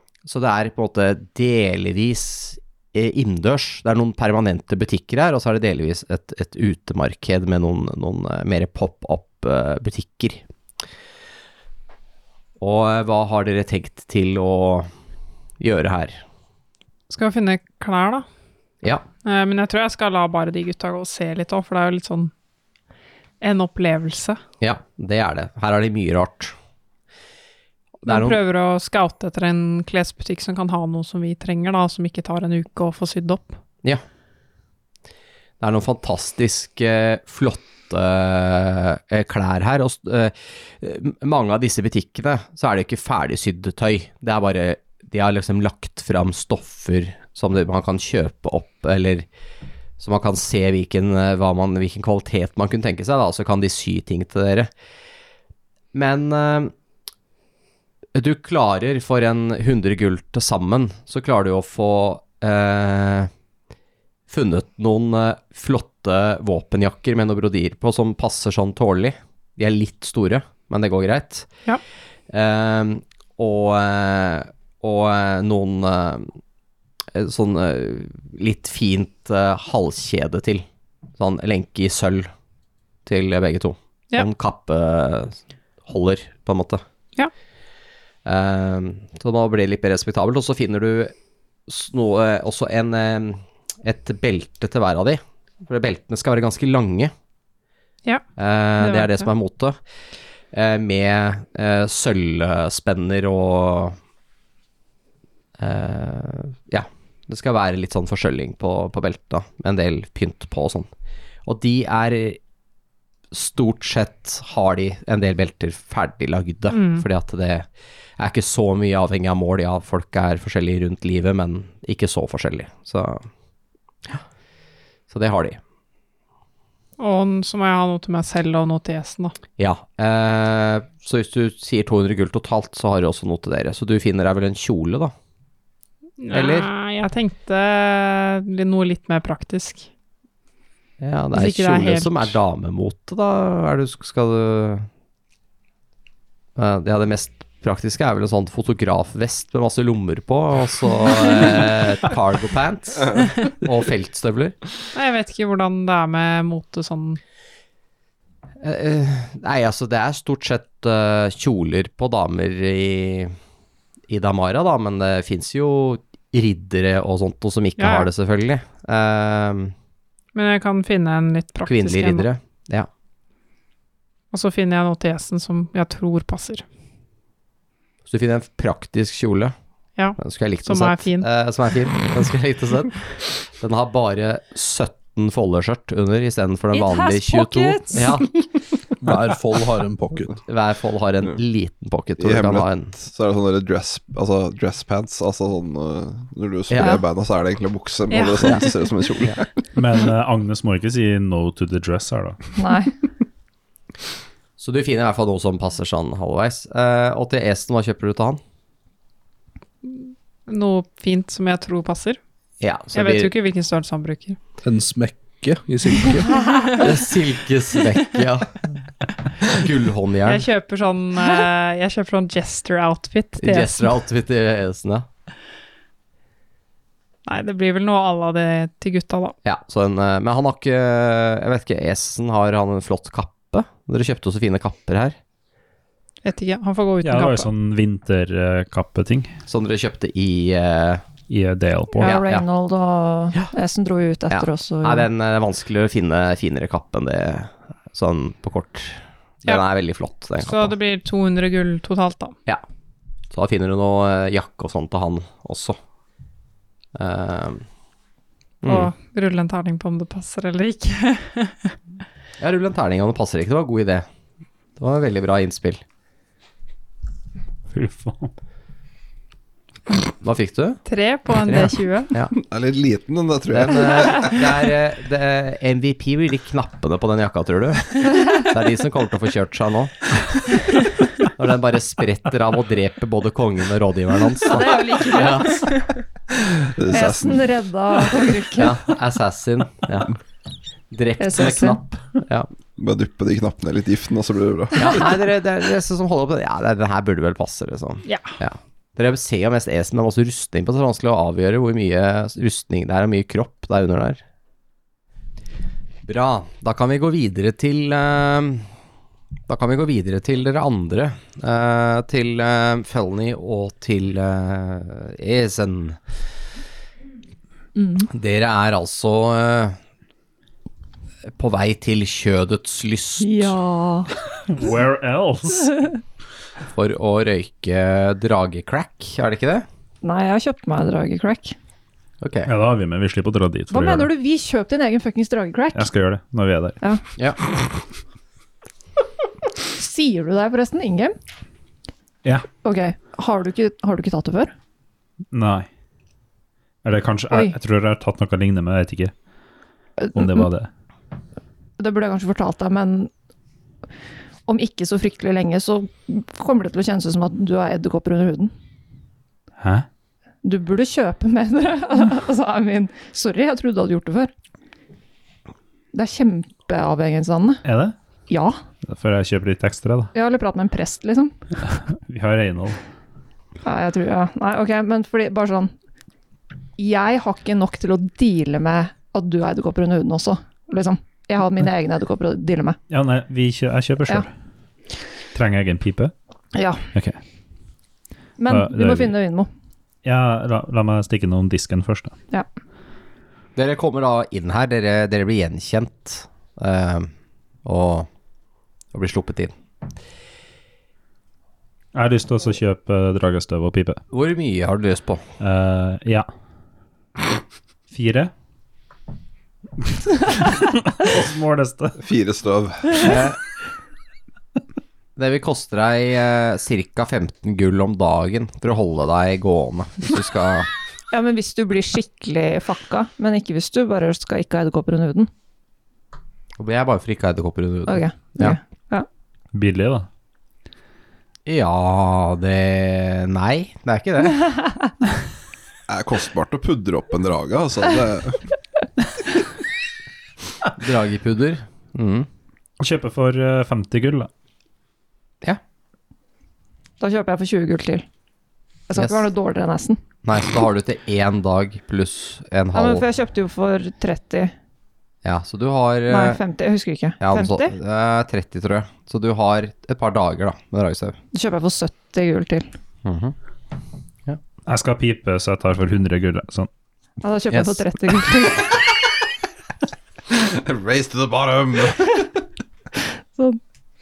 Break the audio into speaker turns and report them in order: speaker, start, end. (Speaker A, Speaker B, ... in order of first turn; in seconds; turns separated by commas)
Speaker A: 0.2-10.4, Speaker A: 12.6-14.9, Speaker A: 15.6-16.2, Speaker B: 17.1-18.3, Speaker B: 19.2-22.3, Speaker B: 23.4-24.4, Speaker A: 24.6-26.6, Speaker A: 28.0-28.4, Speaker B: 28.1-33.6, Speaker A: 35.6-49.3, Speaker A: 50.0-54.7, Speaker A: 55.9-56.7, Speaker A: 58.1-63.3, Speaker A: 64.3-71.5, Speaker A: 72.3-76.3, Speaker A: 77.2-80.7, Speaker A: 81.2-82.3, Speaker A: 83.1-86.8, Speaker A: 88.2-91.1, Speaker A: 91.7-97.1, Speaker A: 98.4-99.8, Speaker B: 98.8-99.3, Speaker A: 100.5-104.0, Speaker A: 105.6-110.9, Speaker A: 111.5-112.4, Speaker A: 113.3-117.7, Speaker B: 116.7-117.1, Speaker A: 118.2-123.3, Speaker A: 125.1-125.6, Speaker B: 127.0-129.3, Speaker A: 129.6-135.1, Speaker B: 136.2-139.9, Speaker A: 136.3-136.7, Speaker A: 141.0-144.9, Speaker B: 141.3-142.4, Speaker A: 146.6-154.6, Speaker B: 154.9-157.2, Speaker A: 158.6-163.3, Speaker A: 164.1-169.7, Speaker B: 167.8-168.1, Speaker B: 170.3-172.3, Speaker A: 171.7-172.9, Speaker B: 174.3-176.6, Speaker A: 178.1-179.5, Speaker B: 180.0-181.3, Speaker A: 180.2-188.3, Speaker C: 186.7-188.3, Speaker D: 189.0-190.4, Speaker A: 190.5-192.9, Speaker E: 192.2-199.5, Speaker A: 196.7-197.0, Speaker B: 198.1-198.7, Speaker F: 199.8-202.4, Speaker C: 202.6-202.9, Speaker A: 204.6-208.4, Speaker B: 209.8-212.2, Speaker A: 212.6-213.3, Speaker B: 212.9-214.4, Speaker D: 214.6-216.3, Speaker B: 216.5-216.8, Speaker A: 216.8-218.5, Speaker A: 219.5-220.4, Speaker B: 220.2-223.9, Speaker A: 223.4-225.1, Speaker B: 227.3-229.3, Speaker A: 229.4-235.2, Speaker B: 236.2-237.5, Speaker F: 237.0-239.3, Speaker A: 239.5-241.0, Speaker F: 241.3-242.2, Speaker C: 241.9-245.1, Speaker A: 242.0-242.4, Speaker A: 244.3-250.7, Speaker B: 250.4-252.3, Speaker A: 253.3-255.8, Speaker A: 256.9-257.6, Speaker A: 258.6-258.9, Speaker B: 258.7-261.8, Speaker A: 262.4-264.1, Speaker A: 264.8-265.8, Speaker F: 267.7-268.3, Speaker A: 270.2-270.8, Speaker B: 270.9-272.1, Speaker A: 271.4-272.3, Speaker E: 272.3-274.4, Speaker A: 273.5-280.2, Speaker A: 281.2-285.7, Speaker B: 284.6-285.9, Speaker C: 285.1-285.5, Speaker E: 286.5-287.4, Speaker C: 286.9-288.8, Speaker A: 288.6-290.1, Speaker A: 290.9-292.5, Speaker C: 291.2-291.8, Speaker E: 292.8-295.1, Speaker A: 294.8-304.2, Speaker B: 298.1-298.4, Speaker A: 306.1-308.7, Speaker A: 309.5-316.0, Speaker C: 317.8-318.1, Speaker A: 318.1-319.8, Speaker A: 321.4-323.5, Speaker C: 323.2-324.1, Speaker F: 324.4-325.9, Speaker A: 326.7-329.7, Speaker C: 330.0-331.6, Speaker A: 332.2-332.5, Speaker F: 332.5-334.1, Speaker C: 333.7-335.9, Speaker F: 335.7-336.8, Speaker C: 339.8-341.1, Speaker C: 342.6-344.5, Speaker F: 345.3-345.7, Speaker F: 346.8-349.1, Speaker C: 350.0-350.4, Speaker F: 350.1-350.7, Speaker C: 351.8-353.1, Speaker C: 354.5-358.5, Speaker F: 359.6-359.9, Speaker C: 360.4-364.3, Speaker C: 365.9-367.6, Speaker F: 367.6-368.0, Speaker C: 368.3-368.6, Speaker F: 368.9-370.1, Speaker C: 370.1-371.4, Speaker F: 372.0-372.8, Speaker C: 373.6-375.7, Speaker C: 376.8-382.8, Speaker F: 382.9-384.3, Speaker F: 385.3-386.1, Speaker C: 386.6-386.9, Speaker C: 388.4-389.5, Speaker F: 388.5-389.1, Speaker F: 390.0-392.1, Speaker A: 393.6-397.1, Speaker A: 397.6-398.1, Speaker A: 398.9-399.5, Speaker F: 401.9-404.0, Speaker A: 404.1-405.2, Speaker F: 405.4-406.3, Speaker F: 407.9-408.3, Speaker F: 409.9-412.0, Speaker E: 412.0-413.1, Speaker A: 413.0-413.4, Speaker A: 415.2-420.7, Speaker C: 421.1-425.3, Speaker A: 426.6-428.6, Speaker C: 427.9-429.1, Speaker F: 429.5-430.1, Speaker A: 431.5-434.4, Speaker E: 435.9-438.4, Speaker A: 440.8-442.3, Speaker F: 442.8-444.3, Speaker C: 447.0-448.1, Speaker C: 448.9-450.0, Speaker A: 449.0-449.2, Speaker A: 450.2-453.1, Speaker C: 452.7-454.5, Speaker A: 455.2-456.4, Speaker C: 456.1-457.7, Speaker A: 457.2-461.2, Speaker C: 461.3-462.7, Speaker A: 463.1-463.4, Speaker F: 464.7-466.7, Speaker C: 467.2-468.8, Speaker A: 467.5-467.8, Speaker E: 470.3-472.2